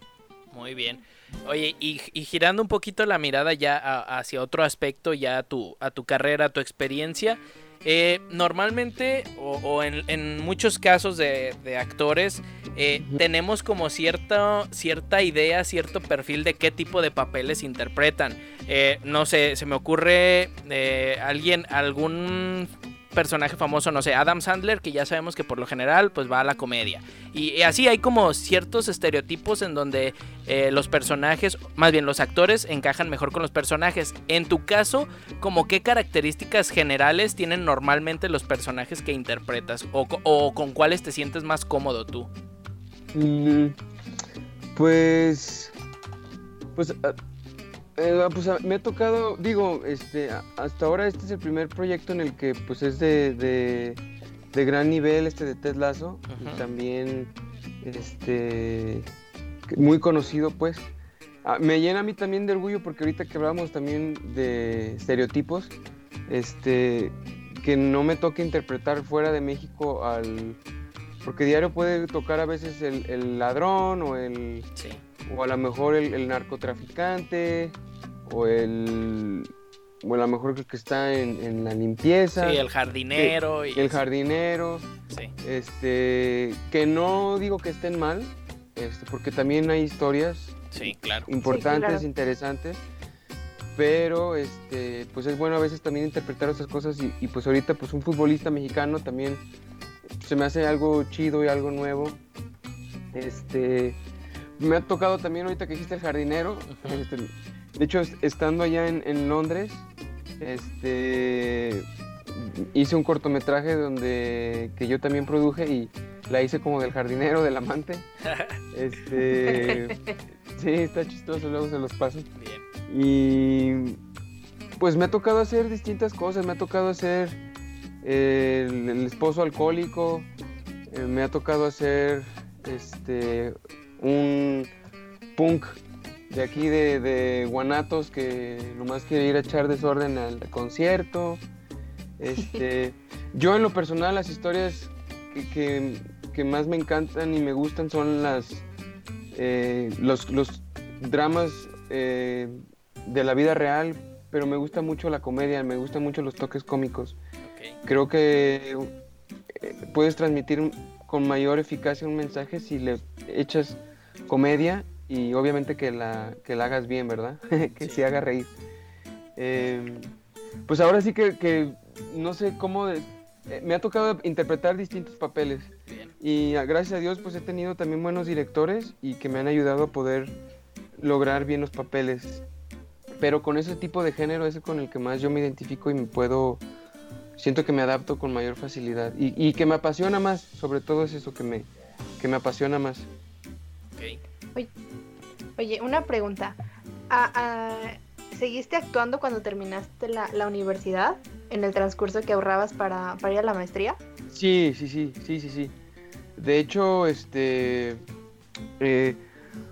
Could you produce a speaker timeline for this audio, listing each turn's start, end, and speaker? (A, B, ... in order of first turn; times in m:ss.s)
0:00.5-0:42.3 A
0:43.1-0:43.8 B
0:44.7-0:45.7 B
0:46.7-0:47.2 B
0:48.0-0:54.0 B
0:54.5-0:59.1 B
0:56.3-0:56.6 A
0:59.7-1:00.9 B
1:01.4-1:05.7 B
1:06.3-1:10.6 B
1:11.2-1:14.7 B
1:14.8-1:15.0 A
1:15.2-1:24.9 B
1:22.4-1:24.0 A
1:25.4-1:32.8 B
1:30.7-1:31.3 A
1:31.4-1:32.0 C
1:33.7-1:39.4 B
1:40.2-1:42.2 B
1:43.1-1:44.0 B
1:44.6-1:49.8 B
1:46.7-1:47.0 A
1:50.4-1:58.0 B
1:58.2-1:58.6 A
1:58.7-2:00.0 B
1:59.5-2:00.1 C
2:00.5-2:02.3 B
2:02.4-2:02.6 A
2:02.9-2:04.0 B
2:04.8-2:07.4 B
2:08.0-2:10.3 B
2:10.9-2:14.7 B
2:15.3-2:21.4 B
2:22.2-2:28.6 B
2:29.3-2:37.2 B
2:37.5-2:37.8 A
2:37.8-2:38.9 B
2:39.5-2:48.5 B
2:49.4-2:50.1 B
2:50.7-3:00.4 B
3:01.0-3:02.4 B
3:03.2-3:06.6 B
3:07.4-3:11.7 B
3:12.2-3:13.1 B
3:14.0-3:14.2 A
3:15.6-3:16.6 C
3:17.1-3:24.0 C
3:24.3-3:25.7 B
3:26.4-3:28.0 B
3:28.8-3:29.2 B